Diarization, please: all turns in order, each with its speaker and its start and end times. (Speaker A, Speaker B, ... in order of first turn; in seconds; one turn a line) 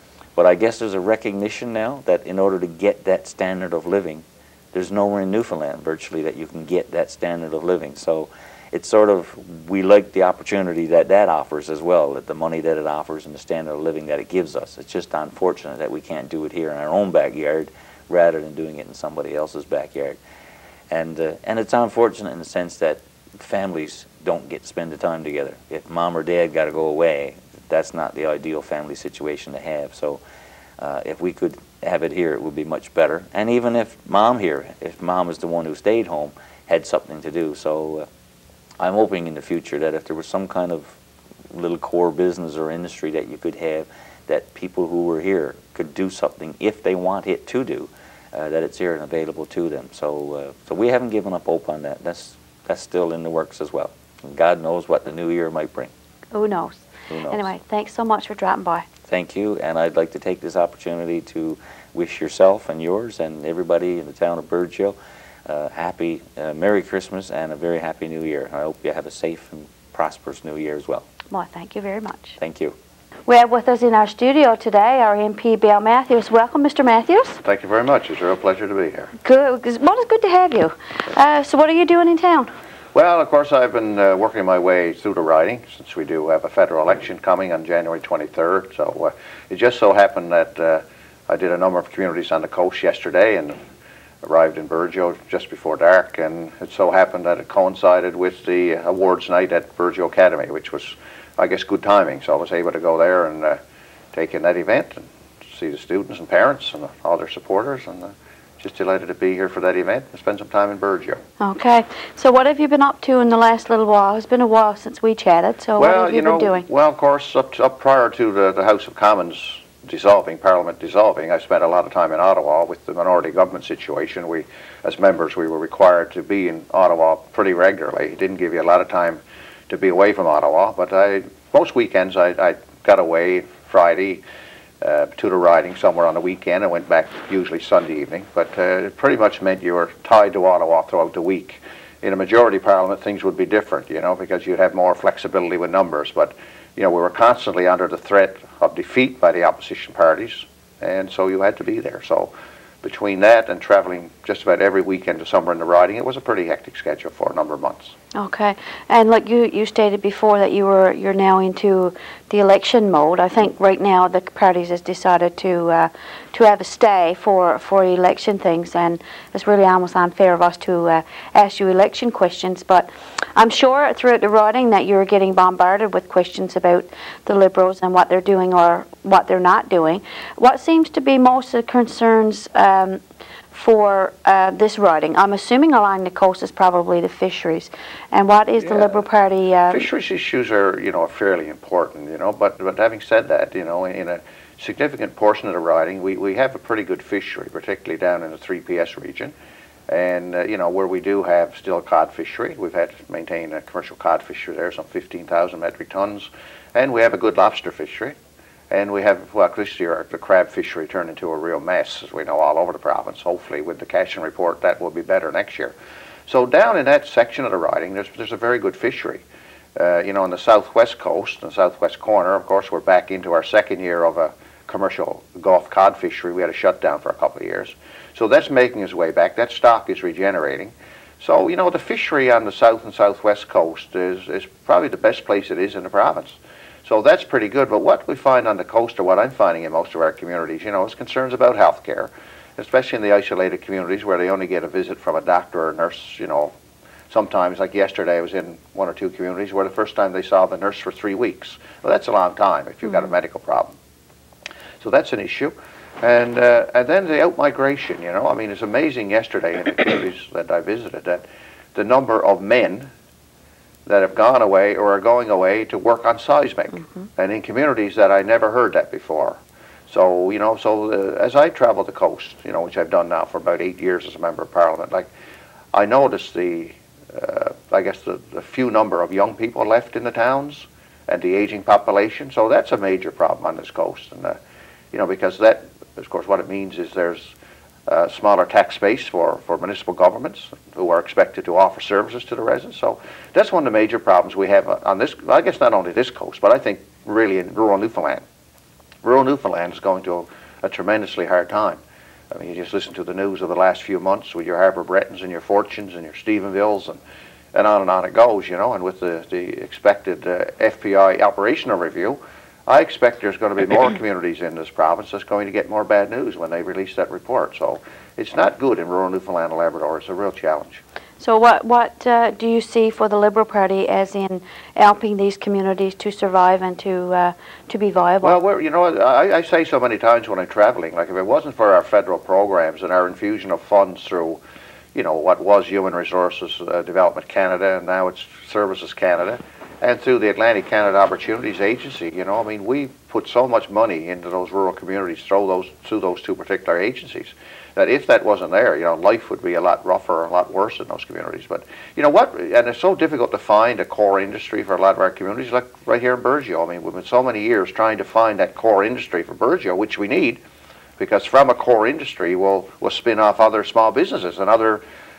Speaker A: 0.3-20.2
Speaker A: 20.9-30.2
Speaker A: 30.8-38.1
Speaker A: 38.8-41.0
Speaker A: 41.5-55.9
Speaker B: 56.3-58.9
Speaker A: 57.1-57.5
Speaker A: 59.1-71.0
Speaker B: 71.3-72.4
Speaker A: 72.4-72.7
Speaker B: 73.3-77.4
Speaker C: 77.4-79.1
Speaker B: 79.2-82.5
Speaker C: 82.9-93.6
Speaker C: 94.2-103.6
Speaker C: 104.1-111.2
Speaker B: 111.4-116.7
Speaker C: 115.8-134.2
Speaker C: 134.8-152.3
Speaker C: 152.8-157.9
Speaker B: 158.1-189.9
Speaker C: 188.6-188.9
Speaker C: 189.7-199.3
Speaker C: 199.9-208.2
Speaker C: 208.7-215.7
Speaker C: 216.3-219.2
Speaker C: 219.8-246.5
Speaker C: 247.1-253.7
Speaker C: 254.8-262.9
Speaker C: 263.9-275.1
Speaker C: 275.7-284.4
Speaker C: 284.9-287.3
Speaker C: 287.9-298.2
Speaker C: 299.0-307.0
Speaker C: 307.5-320.8
Speaker B: 321.2-328.4
Speaker C: 328.2-334.4
Speaker C: 334.9-360.4
Speaker C: 361.0-364.8